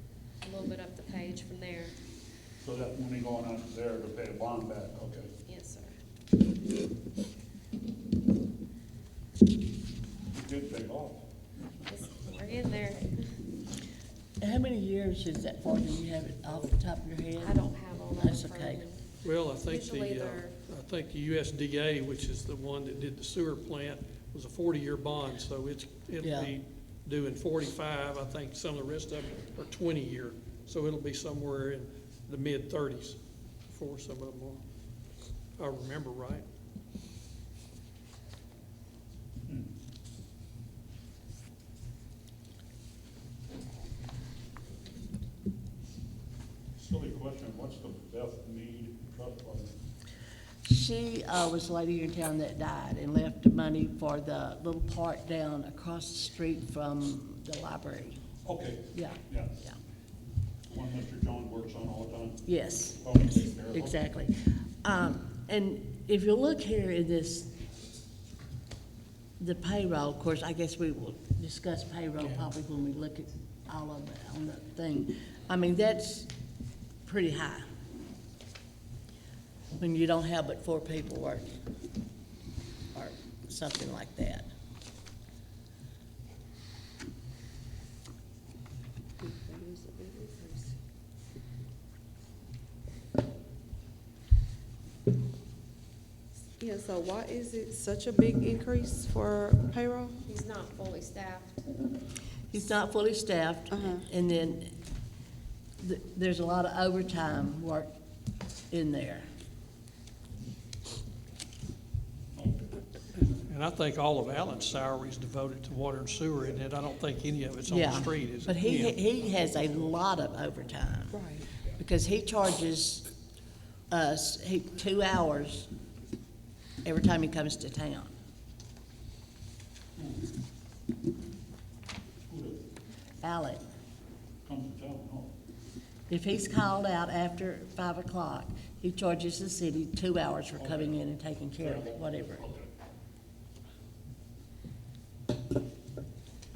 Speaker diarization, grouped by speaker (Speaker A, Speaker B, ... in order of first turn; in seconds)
Speaker A: 0.4-1.9, 5.4-6.0, 11.8-13.2, 17.4-19.0, 19.6-20.6, 100.2-101.7
Speaker B: 2.6-5.3, 10.3-11.2, 46.8-49.7, 58.4-59.6, 60.7-62.5, 63.0-64.0, 112.3-112.7, 130.0-130.2, 132.3-132.6, 134.4-135.3, 140.6-141.0, 141.6-142.7
Speaker C: 14.4-18.8, 26.2-26.5, 50.6-58.2, 58.9-59.8, 62.5-63.1, 63.7-67.5, 69.4-76.3, 77.0-77.7, 79.8-81.5, 82.9-84.5, 102.5-104.7, 105.8-107.9, 108.7-109.3, 117.7-123.1, 123.9-125.7, 126.8-128.1, 133.2-133.6, 136.1-142.5
Speaker D: 19.2-34.6, 35.6-36.5, 113.3-119.0
Speaker E: 89.2-90.7, 96.6-100.1, 103.7-104.0, 121.1-121.5